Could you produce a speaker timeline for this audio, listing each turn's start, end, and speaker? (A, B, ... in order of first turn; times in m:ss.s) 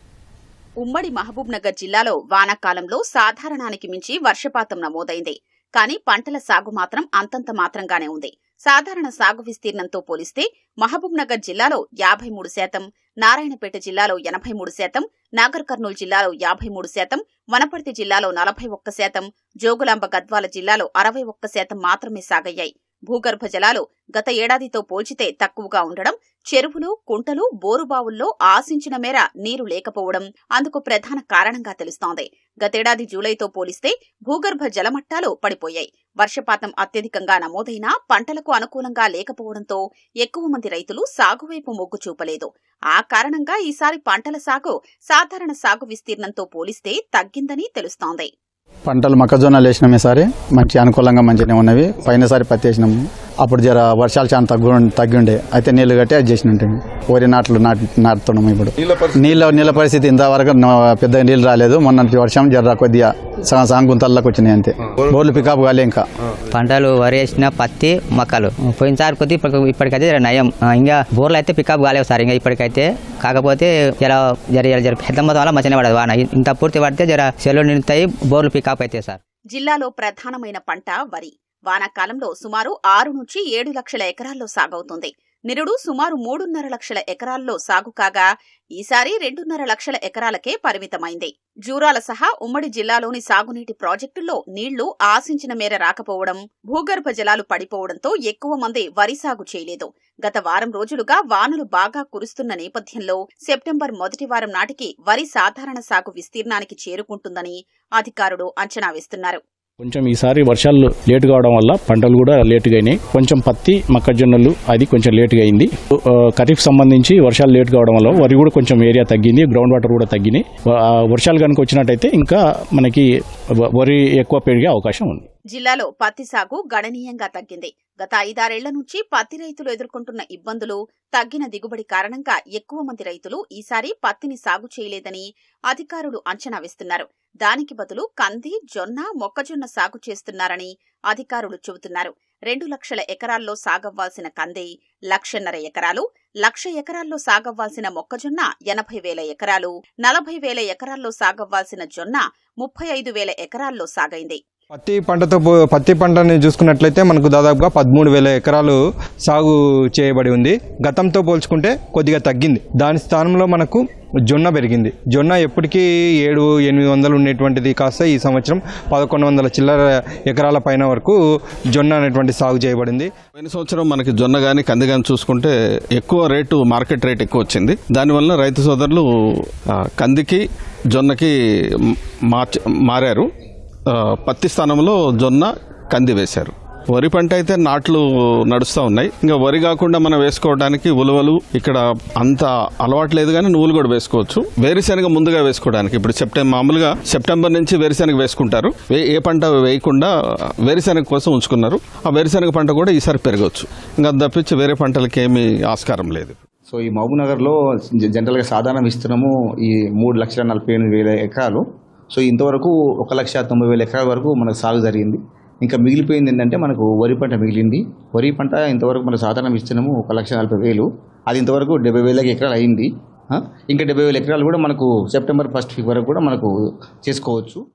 0:00.8-0:48.3 A
0:48.9-1:06.0 B
1:06.5-1:19.2 C
1:19.5-1:28.2 A
1:28.8-1:49.4 A
1:49.8-1:55.7 D
1:56.4-2:00.4 D
2:01.1-2:03.0 D
2:03.8-2:05.2 D
2:05.5-2:34.4 A
2:34.7-2:51.2 E
2:51.7-2:53.1 E
2:53.4-2:59.0 F
2:59.8-3:00.4 F
3:00.9-3:01.3 F
3:01.9-3:03.3 F
3:03.9-3:20.1 F
3:20.6-3:26.4 F
3:26.7-3:27.5 G
3:28.1-3:31.6 G
3:32.1-3:46.5 G
3:47.0-3:47.6 G